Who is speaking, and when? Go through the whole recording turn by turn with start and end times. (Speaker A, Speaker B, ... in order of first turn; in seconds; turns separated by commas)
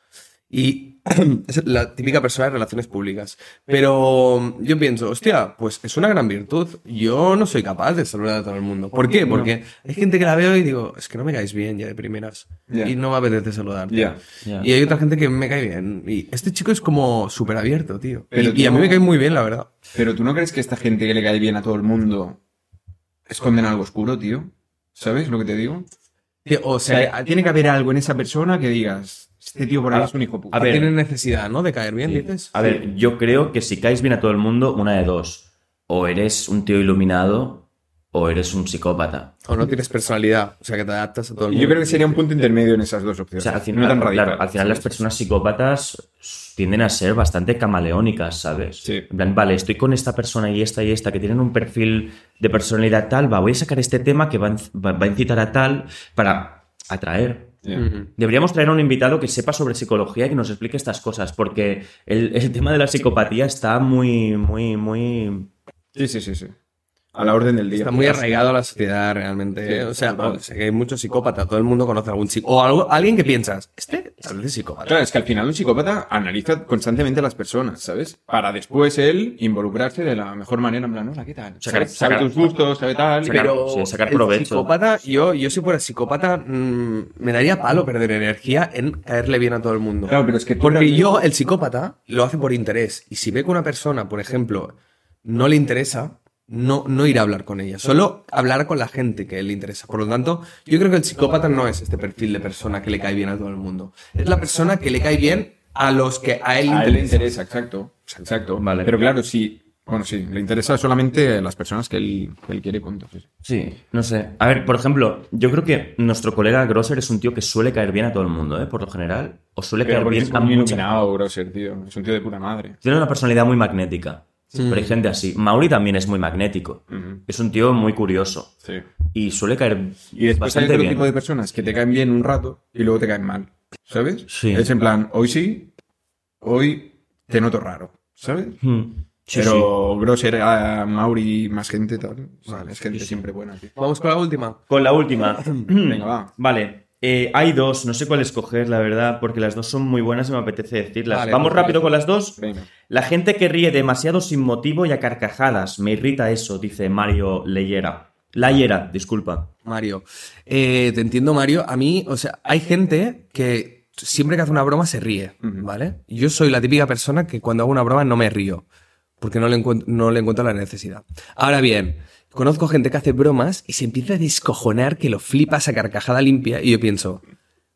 Speaker A: 0.5-19.7, Speaker B: 12.7-12.9, Speaker B: 13.9-14.2, Speaker B: 18.3-19.1, Speaker B: 19.9-22.4, Speaker B: 23.3-25.9, Speaker A: 26.4-27.2, Speaker B: 26.9-30.9, Speaker A: 29.9-32.8, Speaker C: 30.6-30.9, Speaker C: 32.0-39.3, Speaker A: 39.5-42.2, Speaker B: 41.5-44.9, Speaker C: 43.4-57.6, Speaker A: 57.8-58.1, Speaker C: 58.2-65.5, Speaker B: 66.0-66.5, Speaker B: 67.1-68.5, Speaker A: 67.7-75.0, Speaker B: 69.6-70.4, Speaker B: 74.9-83.6, Speaker C: 81.6-82.5, Speaker A: 83.2-107.3, Speaker C: 83.3-84.7, Speaker B: 90.1-91.2, Speaker B: 106.7-113.2, Speaker C: 108.6-108.9, Speaker C: 113.4-121.0, Speaker B: 119.8-122.8, Speaker C: 122.8-128.5, Speaker A: 124.5-124.9, Speaker B: 126.9-127.2, Speaker C: 129.1-131.1, Speaker B: 130.2-135.7, Speaker C: 134.3-134.7, Speaker B: 136.4-138.6, Speaker C: 138.6-139.7, Speaker B: 139.3-143.8, Speaker A: 143.8-144.6, Speaker C: 144.7-159.5, Speaker B: 145.7-146.3, Speaker A: 151.1-151.8, Speaker B: 152.4-152.7, Speaker A: 159.7-168.7, Speaker A: 169.2-177.2